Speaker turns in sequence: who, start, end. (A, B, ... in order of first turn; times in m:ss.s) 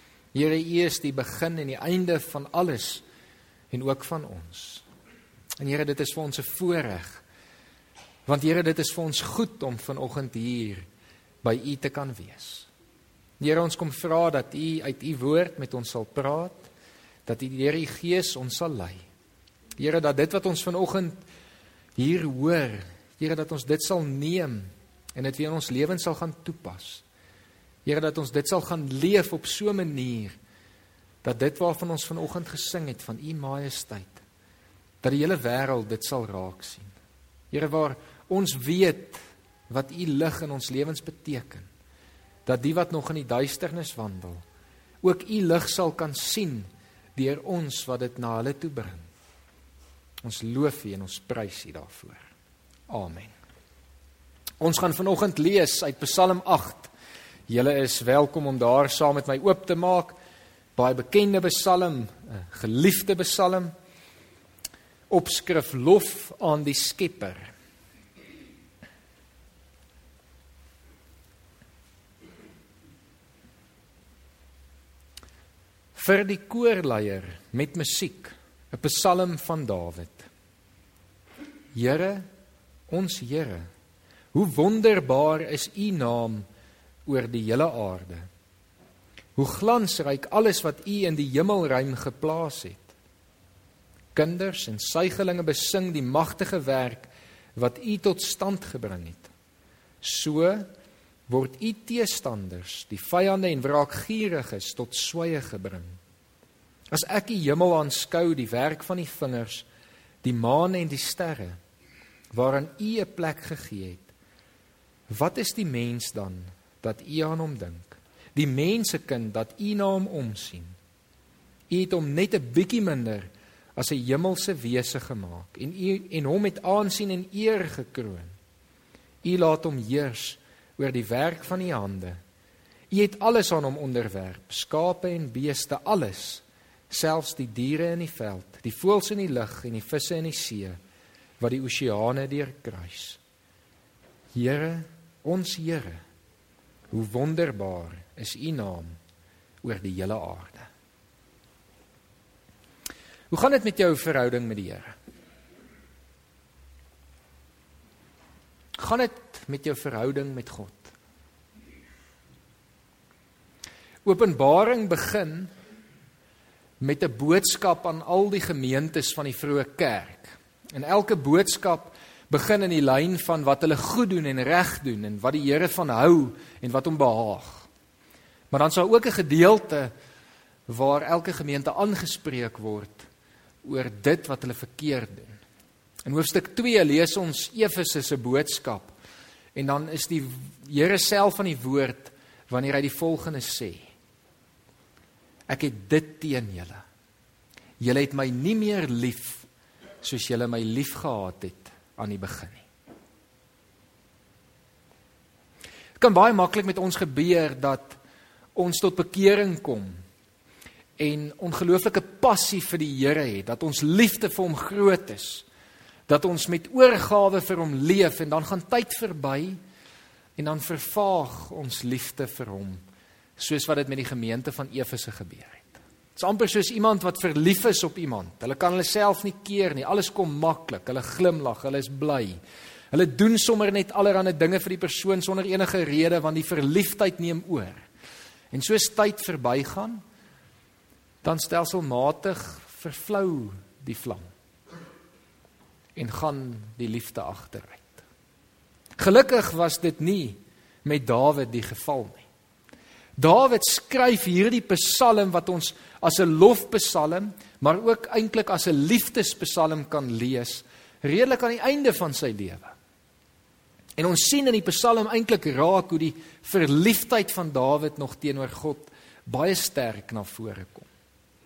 0:00.3-0:03.0 A
0:03.7-0:04.8 A
0:05.6-0:07.2 A
0:08.3-0:10.8 A
0:11.4-0:12.7 A
0:13.4-0:16.7 A
0:17.2-0:19.0 A
0:19.8-0:21.2 A
0:22.0-0:27.0 A
0:27.8-0:30.4 A
0:31.2-0:34.2 A
0:35.0-0:36.9 A
0:37.5-0:41.7 A
0:42.4-0:44.4 A
0:45.0-0:49.0 A
0:50.2-0:52.3 A
0:52.9-0:53.3 A
0:54.6-0:56.9 A
0:57.5-1:00.2 A
1:00.8-1:03.7 A
1:05.1-1:07.5 A
1:16.0-1:20.3 A
1:21.8-1:22.3 A
1:22.9-1:23.7 A
1:24.3-1:26.4 A
1:27.1-1:28.3 A
1:29.4-1:32.9 A
1:34.2-1:39.3 A
1:40.0-1:40.7 A
1:41.3-1:46.0 A
1:46.9-1:49.7 A
1:50.2-1:51.6 A
1:52.3-1:54.1 A
1:55.1-2:00.8 A
2:01.7-2:08.3 A
2:09.2-2:12.2 A
2:12.9-2:20.8 A
2:21.4-2:23.2 A
2:24.3-2:26.0 A
2:26.9-2:29.0 A
2:29.6-2:30.7 A
2:33.3-2:35.0 A
2:38.8-2:40.9 A
2:44.0-2:45.5 A
2:46.8-2:57.7 A
2:58.5-2:59.9 A
3:00.7-3:03.1 A
3:03.6-3:05.4 A
3:06.0-3:08.9 A
3:09.6-3:13.9 A
3:15.5-3:16.8 A
3:17.8-3:19.5 A
3:20.0-3:22.6 A
3:26.0-3:28.0 A
3:28.6-3:30.0 A
3:31.0-3:35.4 A
3:36.1-3:39.6 A
3:40.4-3:42.8 A
3:43.4-3:52.4 A
3:52.9-3:57.8 A
3:58.5-4:00.0 A
4:01.2-4:04.3 A
4:06.0-4:08.0 A
4:09.0-4:12.3 A
4:13.2-4:22.7 A
4:24.0-4:30.9 A